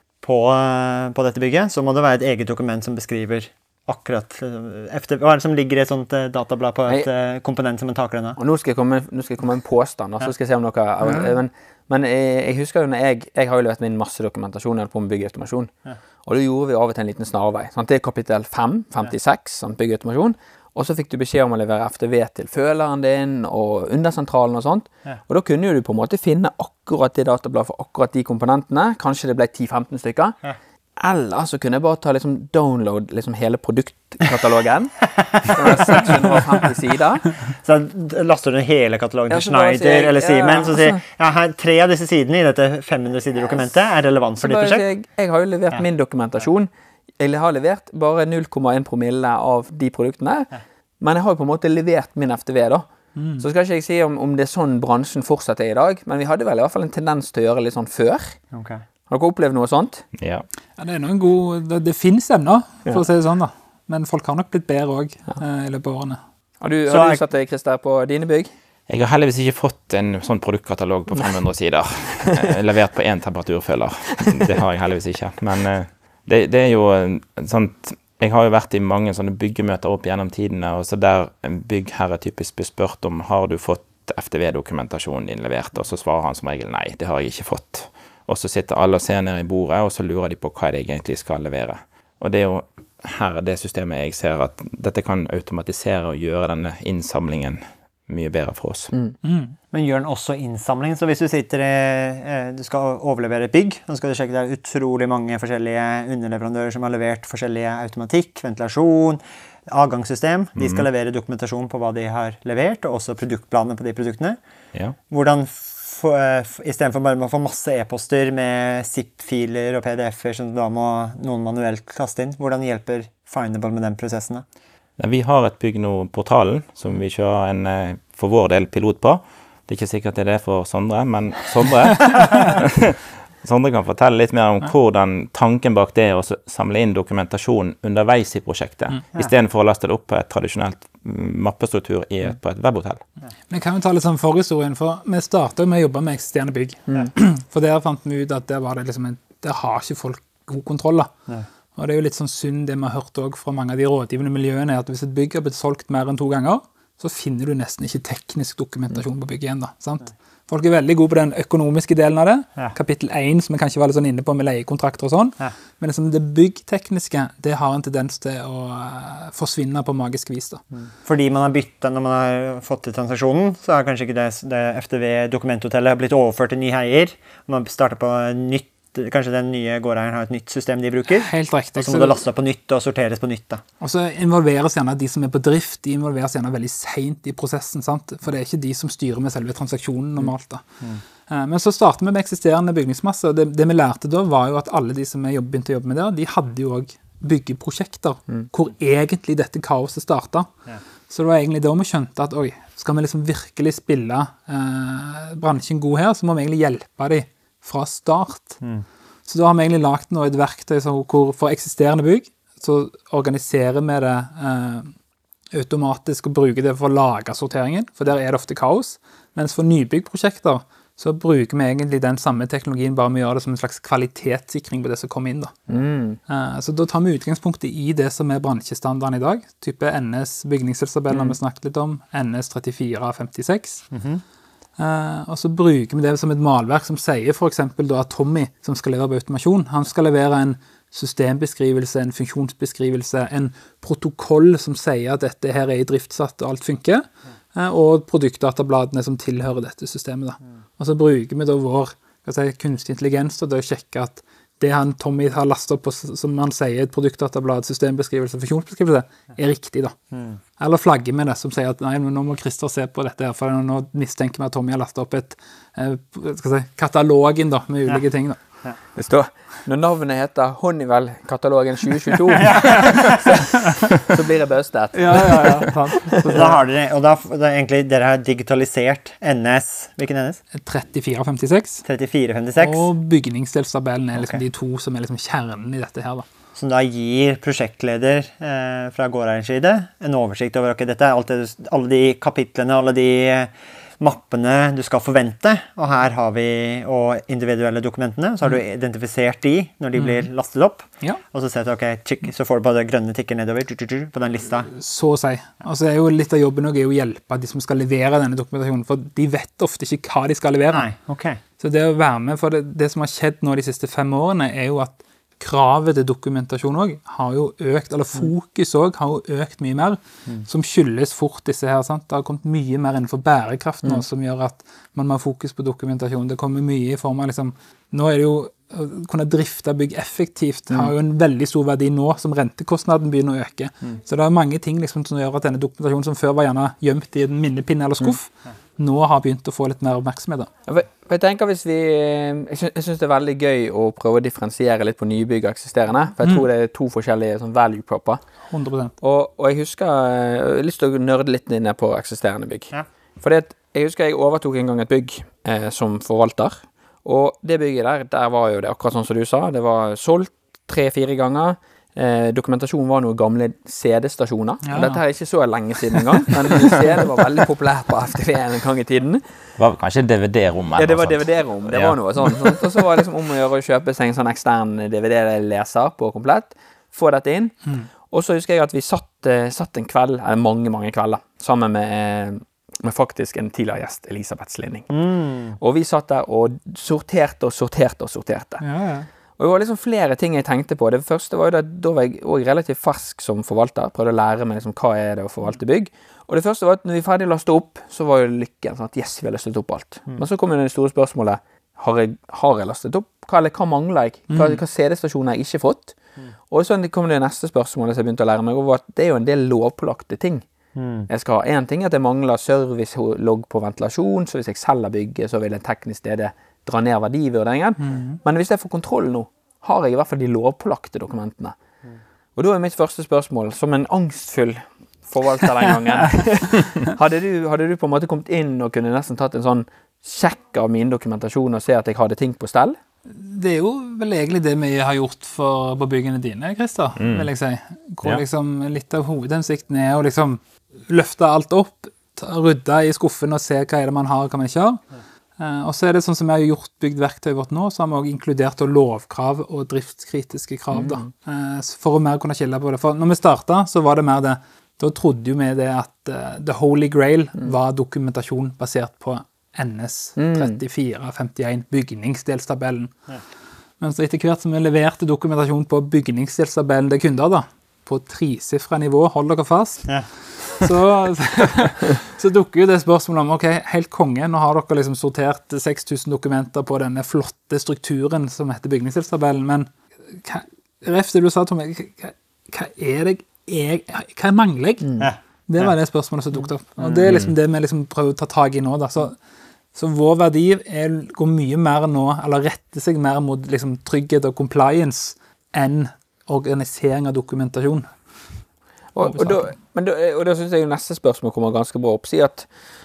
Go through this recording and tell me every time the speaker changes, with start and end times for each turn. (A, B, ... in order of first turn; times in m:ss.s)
0:00.2-0:08.4 A
0:08.4-0:15.7 B
0:16.2-0:30.4 B
0:31.0-0:37.4 B
0:35.4-0:36.2 A
0:37.5-0:44.8 A
0:39.3-0:41.0 B
0:44.4-0:46.7 B
0:47.2-0:52.8 B
0:53.2-0:53.4 C
0:53.4-0:58.4 B
0:58.5-0:58.8 A
0:59.1-1:00.0 B
1:00.2-1:00.4 D
1:00.8-1:06.2 C
1:06.6-1:08.5 B
1:06.9-1:07.2 A
1:08.9-1:38.9 D
1:39.2-1:39.6 C
1:39.7-1:54.4 A
1:50.6-1:50.8 D
1:55.1-2:04.4 A
2:05.0-2:23.0 D
2:23.5-2:31.1 C
2:31.8-2:50.6 C
2:50.7-3:03.6 A
3:01.1-3:02.2 C
3:03.8-3:10.6 C
3:11.3-3:20.5 C
3:21.1-3:28.6 C
3:28.6-3:28.8 A
3:29.3-3:34.9 C
3:35.5-3:45.5 C
3:45.7-3:46.2 B
3:46.3-3:53.9 C
3:51.1-3:51.4 B
3:53.9-3:54.2 A
3:54.8-4:20.0 C
4:20.1-4:20.4 A
4:20.6-4:28.4 C
4:28.9-4:36.5 B
4:32.4-4:33.2 A
4:34.9-4:36.6 C
4:36.3-4:40.4 A
4:40.5-4:41.8 C
4:41.8-4:42.9 A
4:42.6-4:46.2 C
4:46.5-5:04.7 A
5:00.0-5:00.3 C
5:04.7-5:10.8 C
5:10.7-5:11.4 A
5:11.6-5:40.5 C
5:40.7-5:48.2 B
5:46.2-5:46.5 C
5:48.5-5:48.9 C
5:49.0-6:09.4 B
6:04.6-6:05.0 C
6:09.6-6:12.0 D
6:10.8-6:24.9 B
6:24.9-6:25.6 A
6:25.6-6:28.6 B
6:28.6-6:29.1 C
6:29.4-6:45.9 B
6:44.3-6:44.6 C
6:46.5-6:50.4 B
6:50.8-6:51.1 A
6:51.1-7:01.5 B
6:57.8-6:58.2 C
7:02.4-7:12.8 B
7:13.1-7:24.8 C
7:17.0-7:17.3 D
7:25.4-7:42.9 C
7:30.7-7:31.1 B
7:40.2-7:40.6 B
7:43.8-7:49.9 C
7:50.4-8:04.9 C
8:04.8-8:05.1 B
8:05.0-8:05.7 A
8:05.5-8:09.2 C
8:06.8-8:07.1 A
8:09.7-8:17.9 C
8:18.9-8:22.5 B
8:19.0-8:19.5 C